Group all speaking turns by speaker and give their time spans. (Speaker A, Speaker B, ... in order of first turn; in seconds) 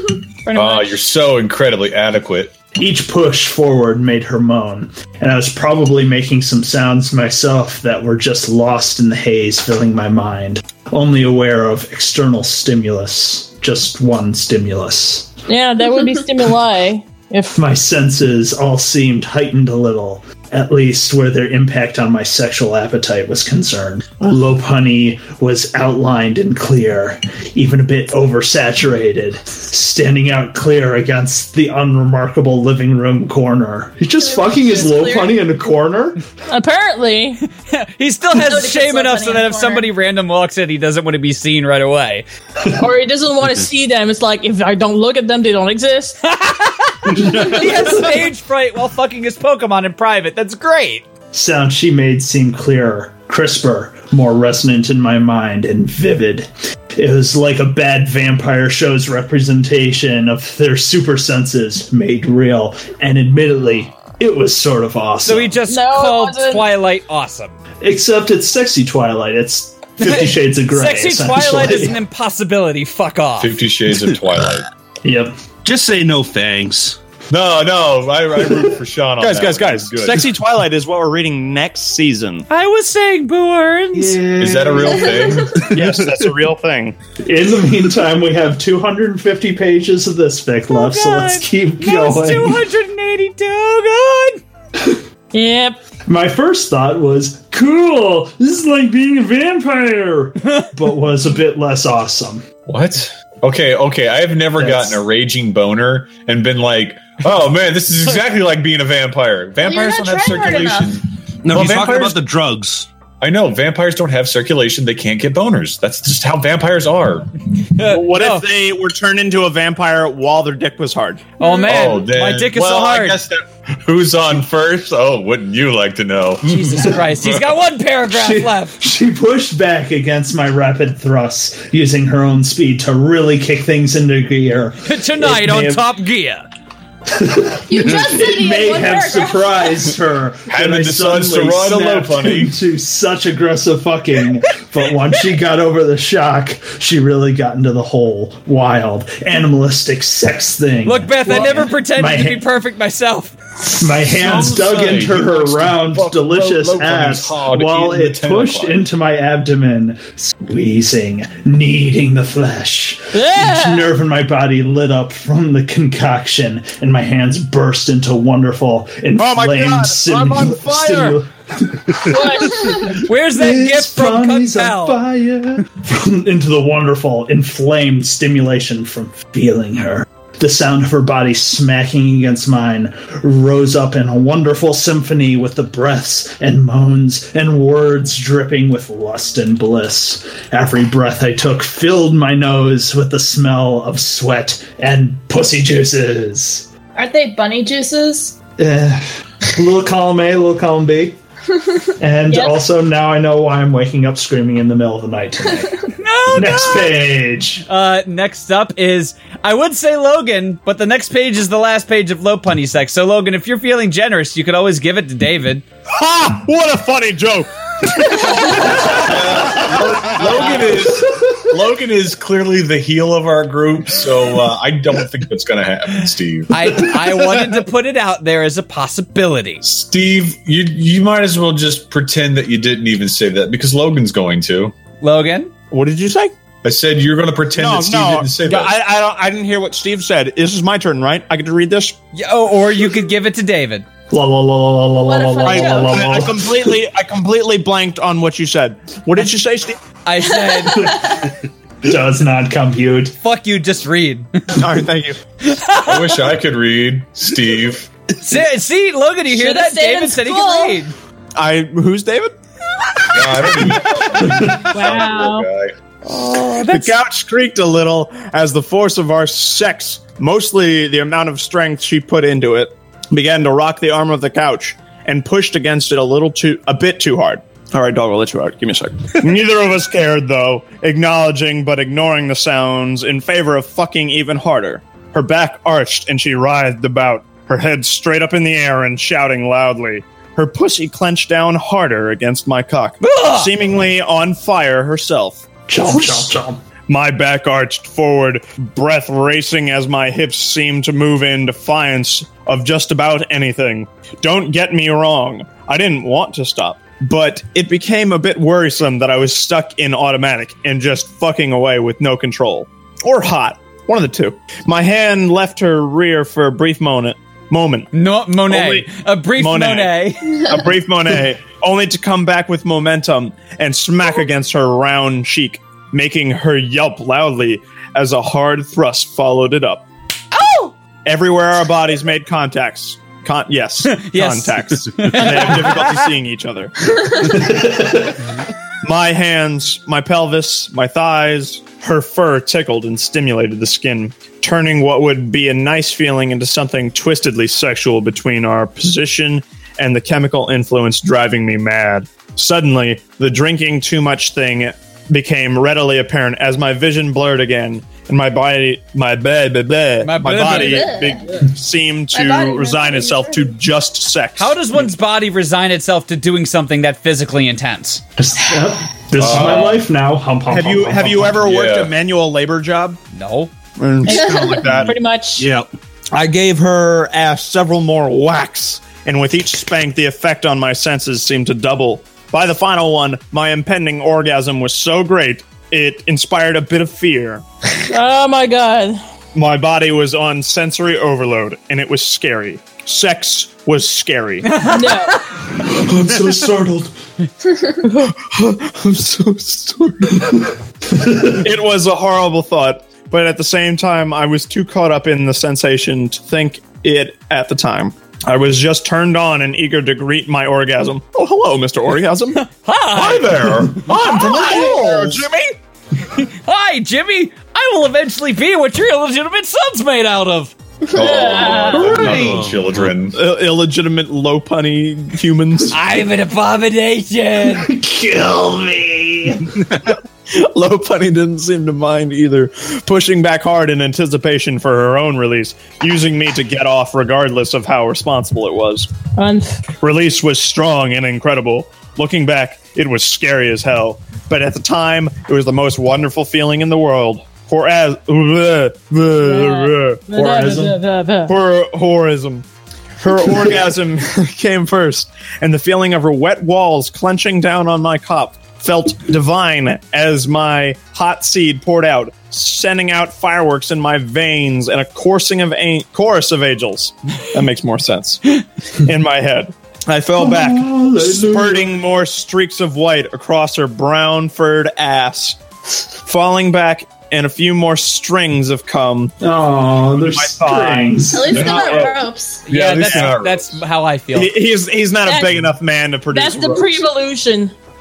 Speaker A: 0.4-0.9, 15.5-17.5, 36.5-37.4, 42.8-46.2, 65.7-66.7, 95.3-95.8, 121.4-121.7, 163.1-163.9, 172.1-172.7, 202.3-202.6, 259.3-260.8, 264.7-265.5, 374.0-375.5, 387.8-389.0, 394.7-395.2, 420.9-422.0, 439.1-439.6, 449.2-451.3, 485.0-485.5, 486.1-487.5
Speaker B: 0.5-2.5, 73.4-74.7, 77.3-80.3, 84.4-85.7, 102.7-112.2, 113.2-117.3, 121.7-127.5, 140.5-142.6, 154.1-158.8, 218.9-226.5, 229.6-234.7, 236.6-238.8, 255.8-257.9, 263.1-265.7, 369.2-369.8, 371.4-371.9, 412.9-415.2, 420.9-423.2, 481.3-483.6
Speaker C: 2.7-15.3, 17.5-36.2, 47.3-48.0, 51.3-65.6, 67.8-72.0, 75.0-75.3, 83.9-86.3, 87.2-92.6, 96.0-102.5, 104.6-105.0, 128.1-135.8, 137.1-152.4, 153.8-196.7, 198.6-201.2, 202.0-205.7, 206.3-207.7, 244.1-246.7, 250.8-251.2, 251.8-253.1, 264.3-264.6, 295.7-296.6, 337.3-338.1, 368.2-371.4, 395.6-396.9, 400.9-401.4, 427.5-429.5, 450.1-450.8, 453.3-453.6, 470.1-471.8, 479.2-481.5
Speaker D: 34.2-35.4, 38.3-39.9, 109.6-111.0, 137.7-139.9, 196.9-198.4, 245.0-246.1, 250.5-250.8, 360.4-361.4, 362.1-363.6, 481.1-482.4
Speaker E: 37.6-42.2, 46.2-51.0, 65.2-67.6, 70.0-73.6, 82.5-84.2, 90.7-94.4, 117.7-118.5, 121.4-123.2, 126.4-128.8, 134.8-136.5, 150.8-153.4, 173.0-175.0, 206.0-207.0, 207.7-215.6, 226.5-229.6, 235.0-235.5, 242.1-243.8, 250.0-251.0, 253.2-254.4, 255.4-256.2, 258.2-260.9, 266.1-267.0, 293.0-293.5, 317.9-320.5, 330.3-330.7, 333.9-336.1, 360.0-360.9, 364.4-368.0, 373.1-373.5, 394.4-395.2, 412.4-413.8, 416.1-420.5, 425.7-427.7, 482.5-484.4
Speaker F: 75.6-77.0, 111.4-112.9, 375.4-375.7, 422.0-422.8
Speaker G: 79.2-82.5, 85.7-87.0, 117.8-121.3, 169.2-171.2, 215.9-218.8, 235.7-236.3, 237.6-241.9, 245.4-249.8, 254.5-255.2, 261.4-262.3, 263.0-263.6, 266.6-295.5, 296.0-296.2, 296.9-317.9, 318.5-329.9, 331.0-336.7, 338.8-364.6, 370.5-373.0, 373.8-375.0, 376.1-387.4, 389.3-394.6, 398.0-400.4, 401.4-412.4, 413.9-415.5, 421.9-422.3, 423.1-425.8, 429.7-438.9, 439.8-450.1, 451.3-452.4, 453.0-475.4, 476.0-479.1, 480.0-482.0, 484.1-486.8